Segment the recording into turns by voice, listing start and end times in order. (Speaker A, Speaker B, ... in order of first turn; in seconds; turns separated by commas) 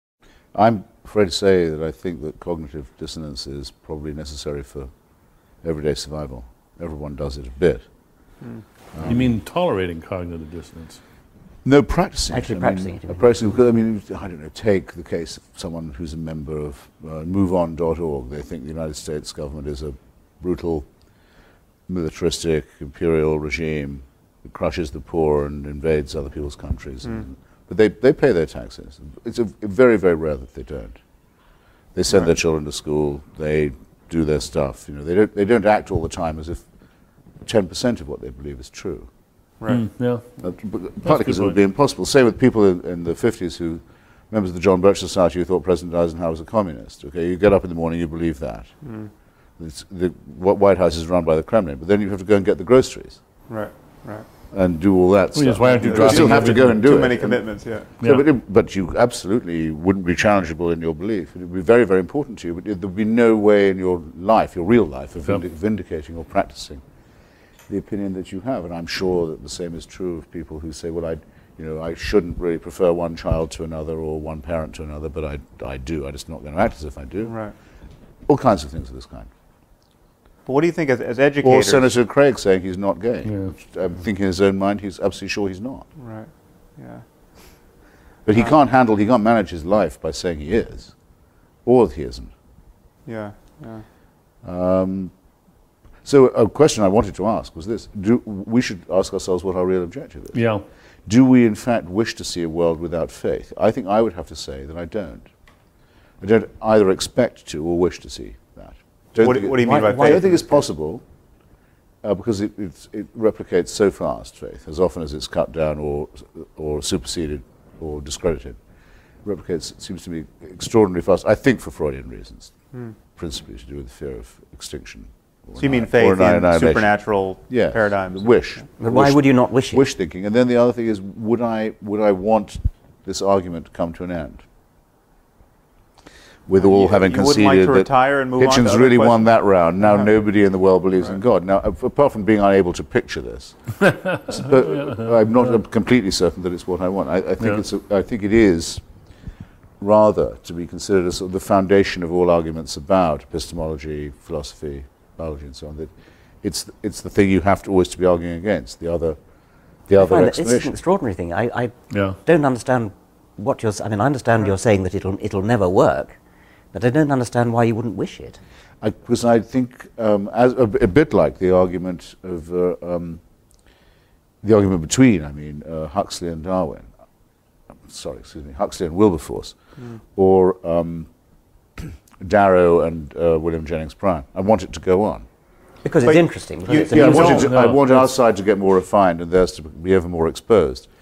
Speaker A: 0.5-4.9, Speaker A: 5.6-7.8, Speaker A: 8.9-9.3, Speaker B: 9.1-11.0, Speaker A: 11.6-20.9, Speaker C: 12.3-13.3, Speaker A: 21.9-31.0, Speaker A: 31.9-36.6, Speaker D: 32.1-32.4, Speaker A: 37.4-39.1, Speaker D: 39.6-39.8, Speaker B: 39.7-40.4, Speaker A: 40.4-48.7, Speaker B: 41.0-41.6, Speaker D: 48.8-49.1, Speaker A: 49.6-53.2, Speaker D: 53.5-54.3, Speaker A: 54.5-57.4, Speaker B: 55.3-57.2, Speaker D: 55.8-57.9, Speaker B: 58.0-58.2, Speaker A: 58.0-66.8, Speaker A: 67.7-77.4, Speaker D: 77.2-77.5, Speaker A: 78.3-79.3, Speaker D: 80.5-82.0, Speaker A: 81.4-85.9, Speaker B: 83.2-83.5, Speaker D: 86.0-87.1, Speaker A: 88.2-90.9, Speaker A: 91.7-92.3, Speaker D: 93.1-93.8, Speaker A: 94.4-95.1, Speaker A: 96.0-100.4, Speaker B: 100.3-100.6, Speaker A: 101.1-105.3, Speaker A: 106.2-111.0, Speaker D: 109.2-110.6, Speaker C: 109.6-110.2, Speaker A: 112.0-118.6, Speaker A: 119.2-122.5, Speaker A: 123.1-126.9, Speaker D: 125.6-128.7, Speaker A: 127.5-134.4, Speaker C: 128.8-129.9, Speaker A: 136.5-143.6, Speaker D: 136.5-140.1, Speaker A: 144.2-148.8, Speaker A: 149.8-155.9, Speaker A: 156.4-159.2, Speaker A: 159.9-160.7, Speaker C: 160.0-166.2, Speaker B: 161.9-162.2, Speaker C: 166.7-168.4, Speaker A: 168.8-173.2, Speaker A: 174.4-176.9, Speaker A: 177.9-179.5, Speaker A: 180.2-181.1, Speaker A: 181.8-185.2, Speaker C: 185.8-187.6, Speaker D: 186.0-187.5, Speaker A: 186.9-190.9, Speaker B: 187.3-188.1